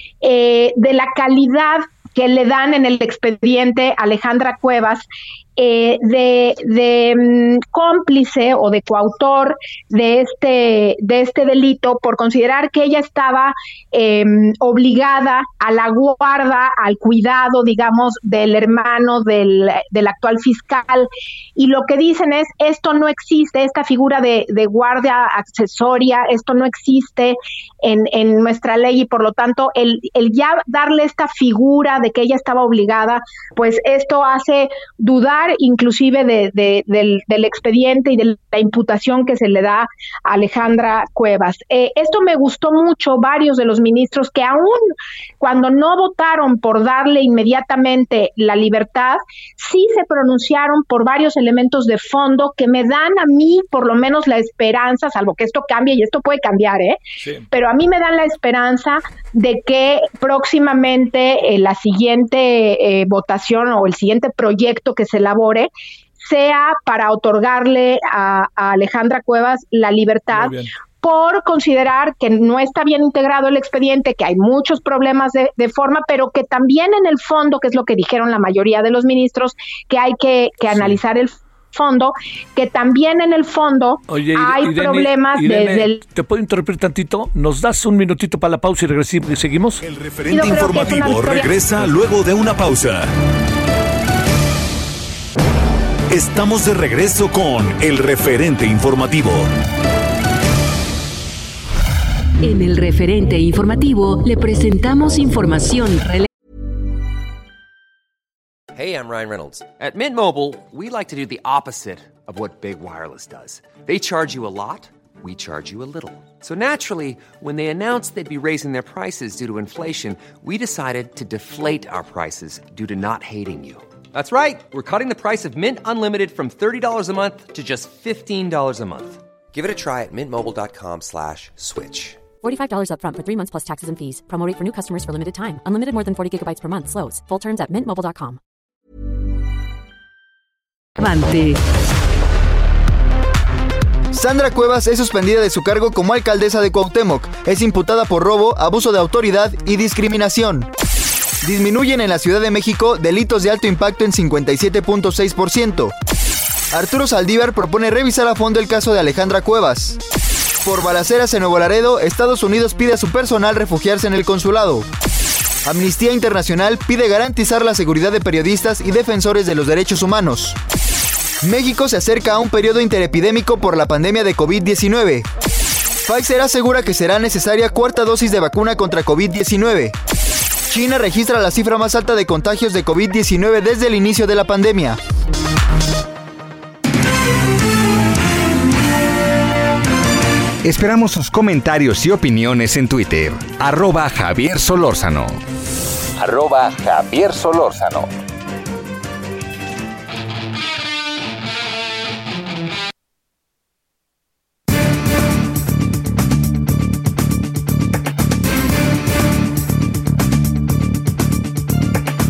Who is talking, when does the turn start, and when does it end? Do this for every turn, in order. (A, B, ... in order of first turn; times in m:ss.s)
0:00.2-0:57.0 A
0:57.2-0:57.5 B
0:57.5-1:26.0 A
1:10.3-1:10.7 B
1:20.7-1:21.0 B
1:24.1-1:29.8 B
1:29.8-1:33.1 C
1:30.3-1:31.6 A
1:36.1-1:39.5 C
1:42.4-1:46.3 D
1:48.7-2:12.2 E
2:12.4-2:18.4 F
2:21.0-2:21.6 D
2:24.1-2:30.7 G
2:31.4-2:35.9 G
2:36.7-2:40.0 G
2:40.6-2:44.9 G
2:45.6-2:50.6 G
2:51.4-2:55.3 G
2:56.0-3:00.0 G
3:00.7-3:05.0 G
3:10.6-3:15.4 H
3:16.2-3:18.1 H